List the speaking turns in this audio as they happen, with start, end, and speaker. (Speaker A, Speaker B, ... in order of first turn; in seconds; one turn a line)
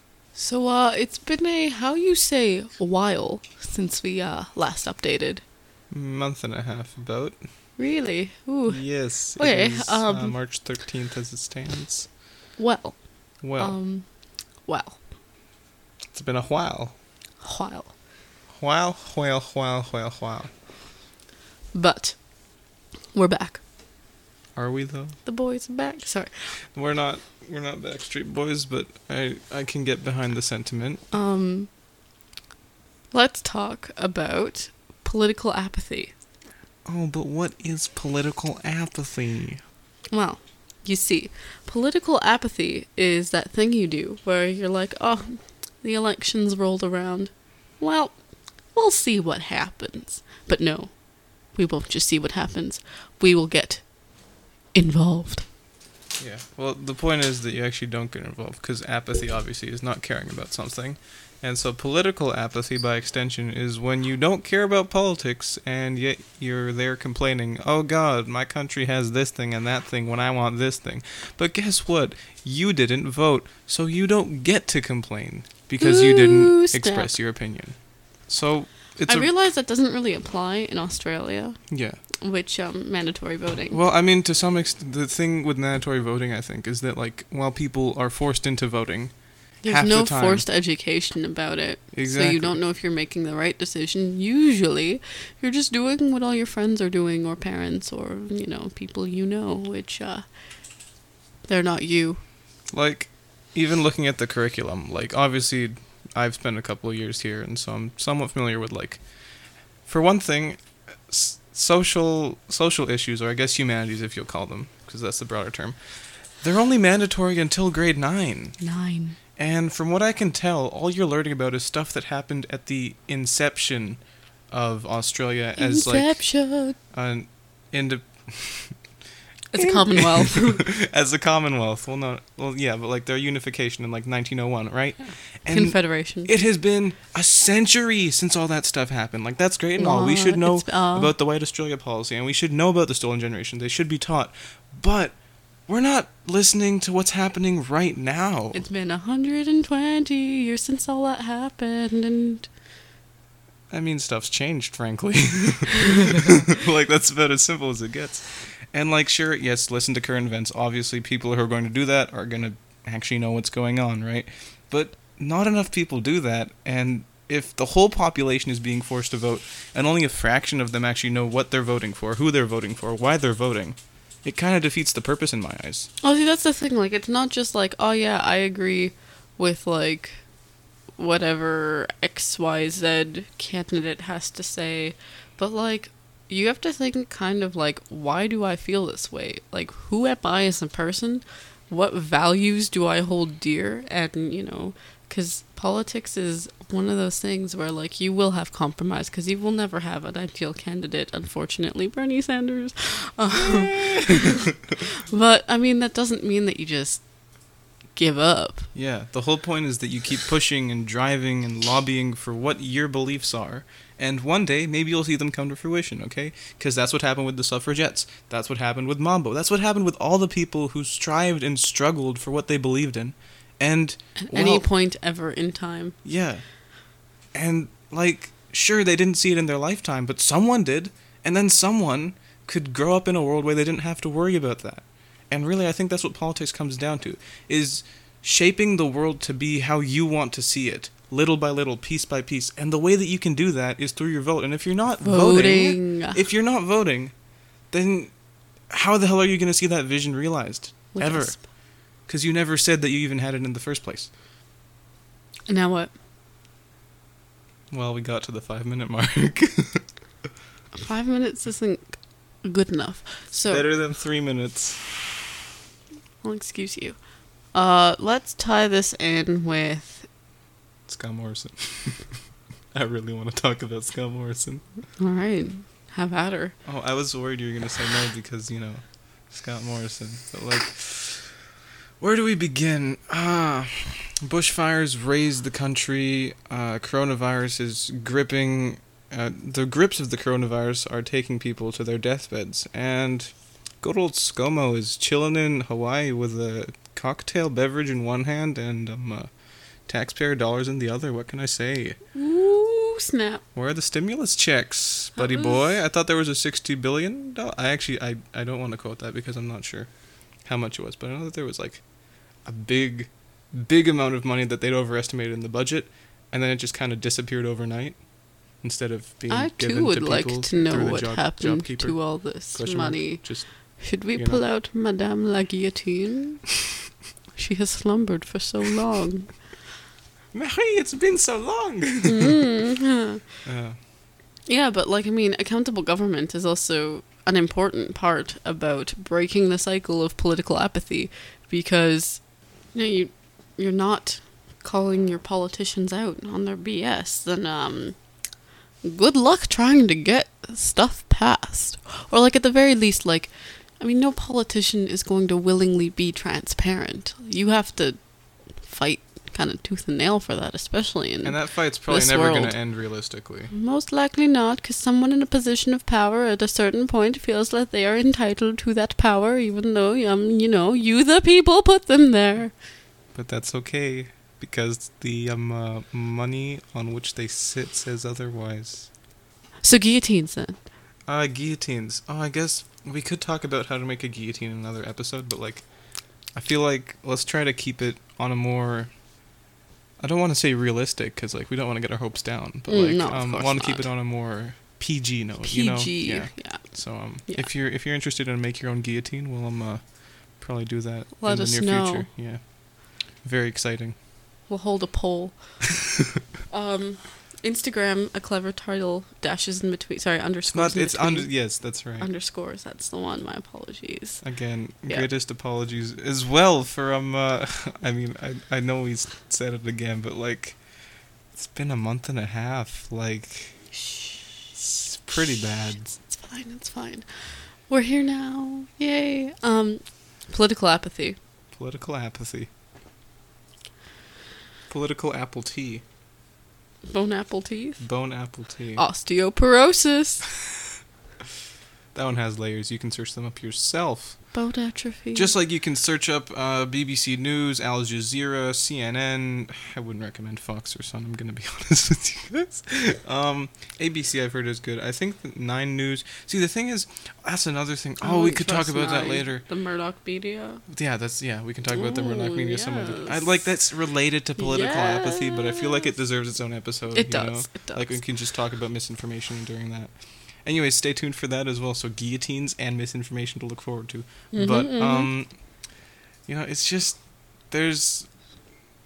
Speaker A: 0.3-5.4
Speaker B: 5.9-7.4
Speaker A: 7.8-10.7
Speaker B: 8.7-12.1
Speaker A: 12.6-15.0
Speaker B: 13.4-13.8
Speaker B: 16.1-16.9
Speaker A: 17.4-17.9
Speaker B: 18.5-20.6
Speaker A: 21.7-23.6
Speaker B: 24.6-25.2
Speaker A: 25.2-26.6
Speaker B: 26.7-31.0
Speaker A: 31.1-31.7
Speaker A: 33.1-36.2
Speaker B: 36.8-39.6
Speaker A: 40.1-55.5
Speaker B: 56.2-79.3
Speaker A: 75.8-77.2
Speaker A: 79.0-83.8
Speaker B: 81.7-82.0
Speaker B: 83.7-90.5
Speaker A: 89.6-100.9
Speaker B: 91.9-92.6
Speaker A: 101.4-102.2
Speaker B: 102.7-118.8
Speaker A: 118.6-119.2
Speaker B: 119.4-128.9
Speaker A: 125.6-126.8
Speaker A: 129.5-130.7
Speaker B: 129.6-148.6
Speaker A: 135.5-136.3
Speaker A: 139.8-141.1
Speaker A: 148.5-152.5
Speaker B: 153.7-175.9
Speaker A: 176.0-208.7
Speaker B: 203.6-204.3
Speaker B: 208.7-224.7
Speaker A: 224.2-225.9
Speaker B: 226.0-254.1
Speaker A: 245.0-246.2
Speaker A: 250.9-251.4
Speaker A: 255.5-255.9
Speaker B: 257.7-259.9
Speaker A: 260.8-263.7
Speaker B: 263.4-265.1
Speaker A: 266.2-270.1
Speaker B: 270.9-274.9
Speaker A: 275.0-276.6
Speaker B: 276.6-281.4
Speaker B: 282.0-302.0
Speaker A: 302.1-303.4
Speaker B: 303.6-324.5
Speaker A: 305.1-305.8
Speaker A: 319.3-326.8
Speaker A: 327.3-329.6
Speaker B: 330.3-332.3
Speaker A: 332.1-333.2
Speaker B: 333.4-333.8
Speaker A: 334.4-372.6
Speaker B: 361.2-363.5
Speaker B: 373.1-378.9
Speaker A: 379.6-380.6
Speaker B: 381.1-389.0
Speaker B: 390.0-404.0
Speaker A: 392.7-393.9
Speaker A: 395.4-397.5
Speaker A: 401.2-402.1
Speaker A: 404.5-405.6
Speaker A: 406.5-415.1
Speaker B: 410.5-412.1
Speaker B: 414.2-423.8
Speaker B: 424.6-426.0
Speaker A: 426.0-431.2
Speaker B: 431.5-432.5
Speaker B: 434.7-435.8
Speaker A: 436.9-438.1
Speaker B: 437.8-438.9
Speaker A: 438.8-440.2
Speaker B: 441.9-444.4
Speaker A: 444.3-445.3
Speaker B: 445.1-459.5
Speaker A: 458.0-460.6
Speaker B: 460.7-478.3
Speaker A: 461.7-463.5
Speaker A: 464.4-466.0
Speaker A: 466.9-468.2
Speaker A: 474.3-475.1